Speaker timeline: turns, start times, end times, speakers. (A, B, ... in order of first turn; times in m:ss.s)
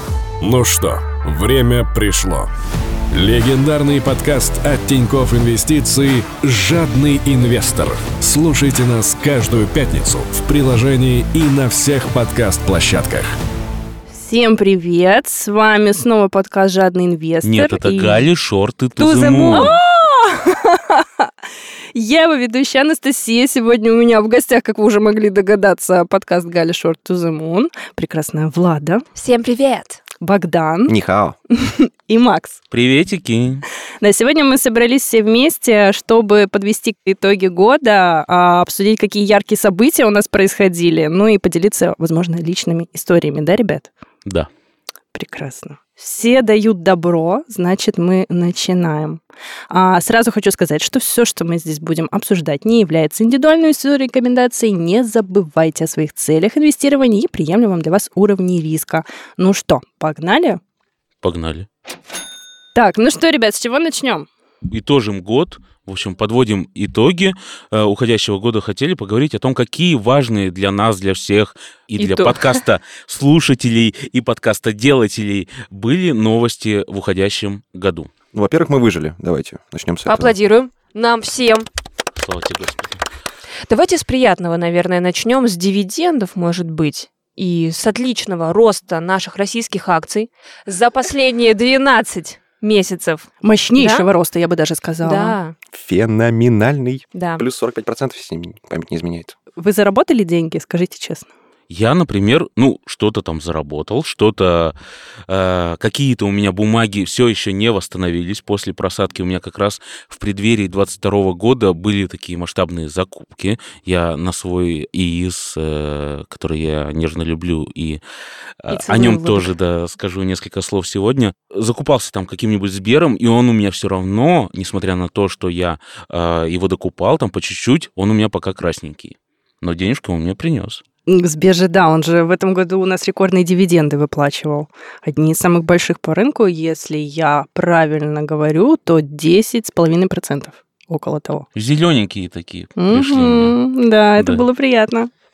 0:00.4-0:02.5 A
0:03.1-0:13.2 A
0:14.1-0:18.3 B
0:17.4-0:19.7 C
0:19.0-0:19.7 D
0:19.5-0:21.3 B
0:21.9-0:29.0 B
0:29.1-0:30.0 D
0:30.2-0:31.0 B
0:30.9-0:31.4 E
0:31.5-0:32.6 B
0:32.7-0:33.6 C
0:34.0-0:43.9 B
0:44.2-0:44.5 C
0:45.1-1:00.6 B
1:01.2-1:01.7 C
1:02.7-1:04.3 B
1:04.7-1:18.1 C
1:12.0-1:12.5 B
1:18.3-1:20.4 E
1:20.0-1:21.6 D
1:22.2-1:23.0 C
1:23.7-1:34.1 D
1:33.4-1:35.4 B
1:35.0-1:35.6 D
1:35.7-1:39.3 E
1:37.1-1:37.4 D
1:39.6-1:41.3 B
1:41.7-1:44.7 C
1:45.3-1:58.0 C
1:58.6-2:10.8 C
1:58.7-1:59.5 D
2:11.1-2:21.4 B
2:21.5-2:23.6 C
2:22.8-2:25.1 B
2:24.2-2:24.4 C